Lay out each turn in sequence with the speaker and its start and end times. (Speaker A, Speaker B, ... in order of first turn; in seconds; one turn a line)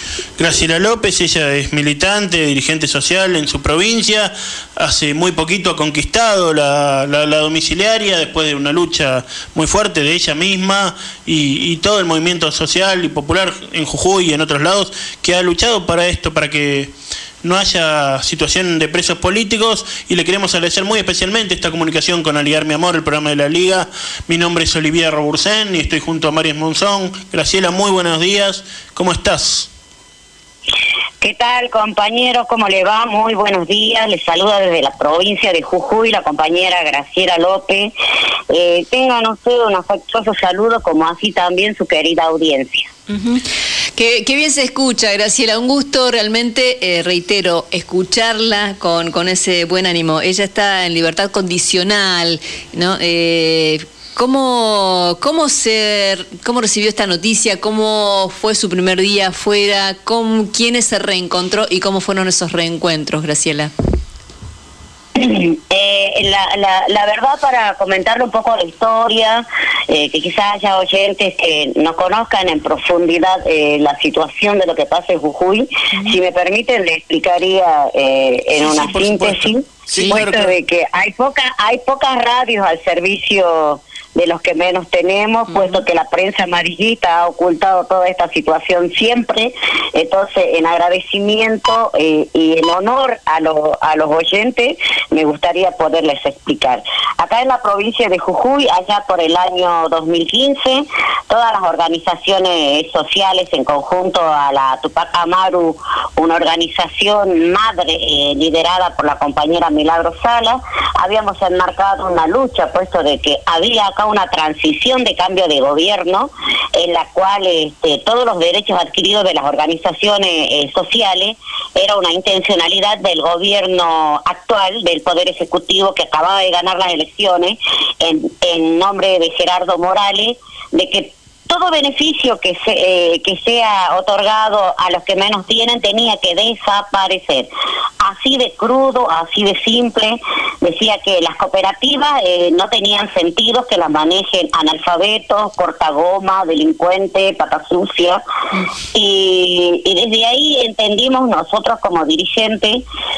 Speaker A: 0.4-16.9
Speaker A: 17.4-29.7
Speaker B: 31.2-37.9
Speaker B: 38.5-42.9
Speaker C: 43.1-43.4
Speaker C: 44.0-63.7
Speaker B: 65.2-137.5
Speaker A: 78.6-80.5
Speaker C: 85.5-85.8
Speaker B: 138.0-148.2
Speaker B: 148.9-152.8